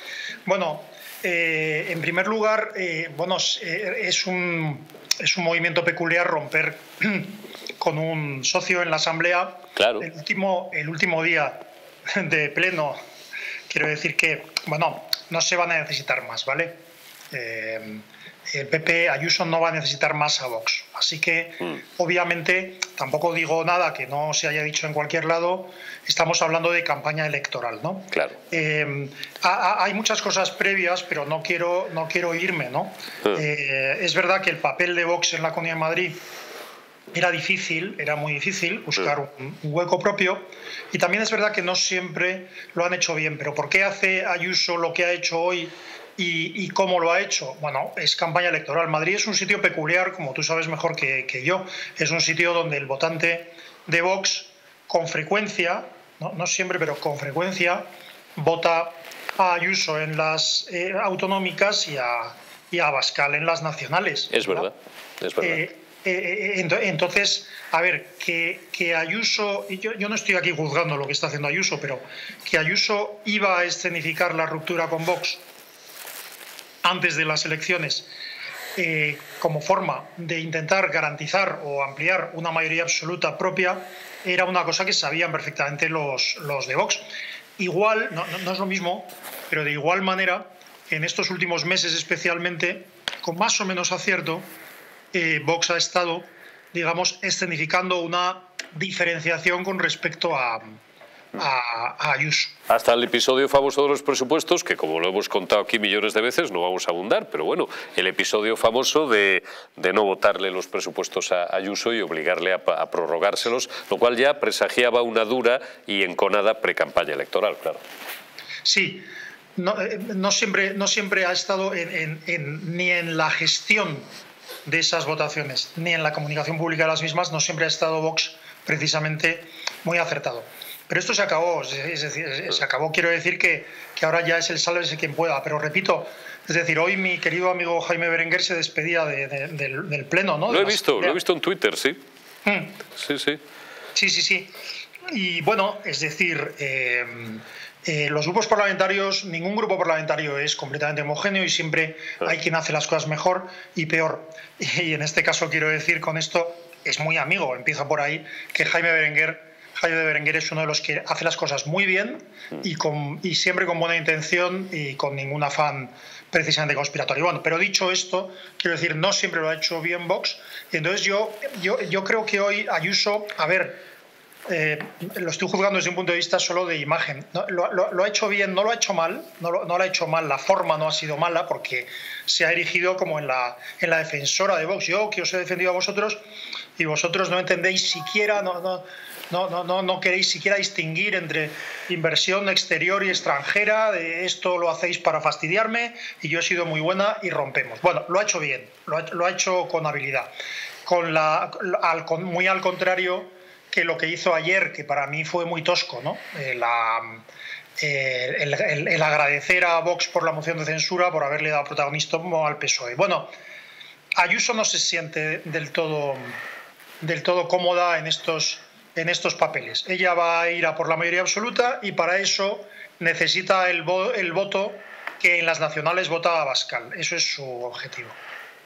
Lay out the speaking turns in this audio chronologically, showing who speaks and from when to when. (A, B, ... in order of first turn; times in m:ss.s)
0:00.4-0:13.0 A
0:09.8-0:10.0 B
0:13.7-0:36.2 A
0:37.1-1:04.7 A
1:04.3-1:05.6 B
1:05.4-1:15.4 A
1:16.8-1:18.1 A
1:18.8-1:34.5 A
1:35.1-1:40.8 A
1:41.4-1:42.6 A
1:42.7-1:57.8 B
1:58.6-2:04.1 A
2:04.6-2:21.2 A
2:20.5-2:22.0 B
2:22.4-2:22.7 A
2:22.9-2:23.4 B
2:23.9-2:24.5 A
2:25.1-2:53.8 A
2:54.5-3:06.2 A
3:06.8-3:20.3 A
3:20.8-3:27.2 A
3:27.8-3:33.3 A
3:34.2-3:36.4 A
3:37.0-3:48.2 A